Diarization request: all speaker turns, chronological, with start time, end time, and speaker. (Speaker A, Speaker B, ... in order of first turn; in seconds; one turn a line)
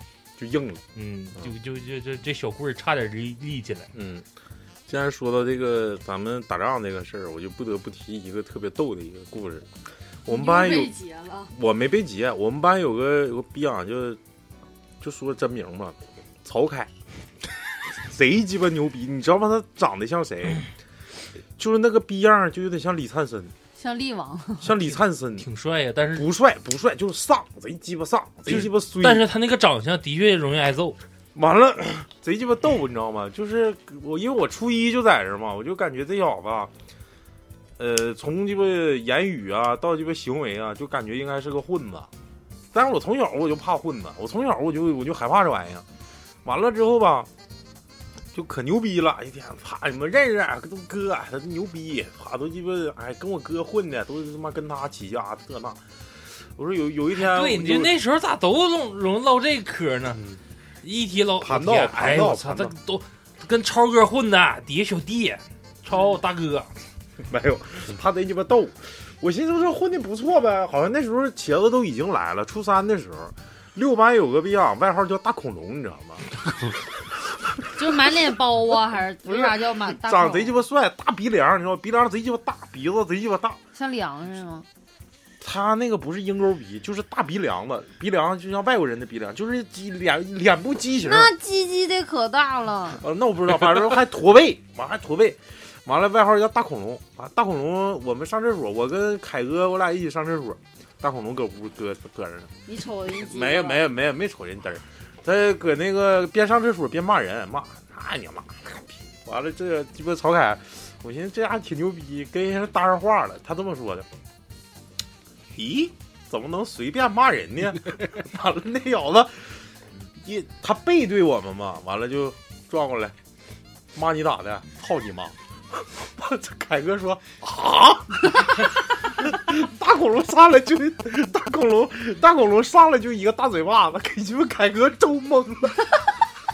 Speaker A: 0.4-0.8
Speaker B: 0.9-3.9
Speaker A: 3.9-4.3
Speaker A: 4.9-9.7
Speaker A: 10.2-10.9
Speaker C: 10.3-11.5
Speaker A: 11.5-14.2
Speaker A: 15.0-16.9
Speaker A: 17.9-20.6
Speaker A: 21.6-23.5
Speaker C: 23.8-24.7
Speaker A: 24.6-25.5
Speaker B: 25.4-26.3
Speaker A: 26.1-29.3
Speaker B: 28.4-31.0
Speaker A: 31.4-36.7
Speaker A: 37.8-42.1
Speaker A: 42.7-45.9
Speaker A: 46.4-47.3
Speaker A: 48.3-57.9
Speaker B: 57.1-60.2
Speaker B: 60.8-66.8
Speaker A: 61.4-62.7
Speaker A: 67.2-76.3
Speaker C: 77.8-80.6
Speaker A: 79.2-83.6
Speaker C: 83.8-84.7
Speaker A: 85.4-91.3
Speaker C: 91.0-93.0
Speaker A: 93.0-102.5
Speaker C: 102.7-103.8
Speaker A: 103.2-114.1
Speaker A: 115.5-123.2
Speaker A: 123.9-136.0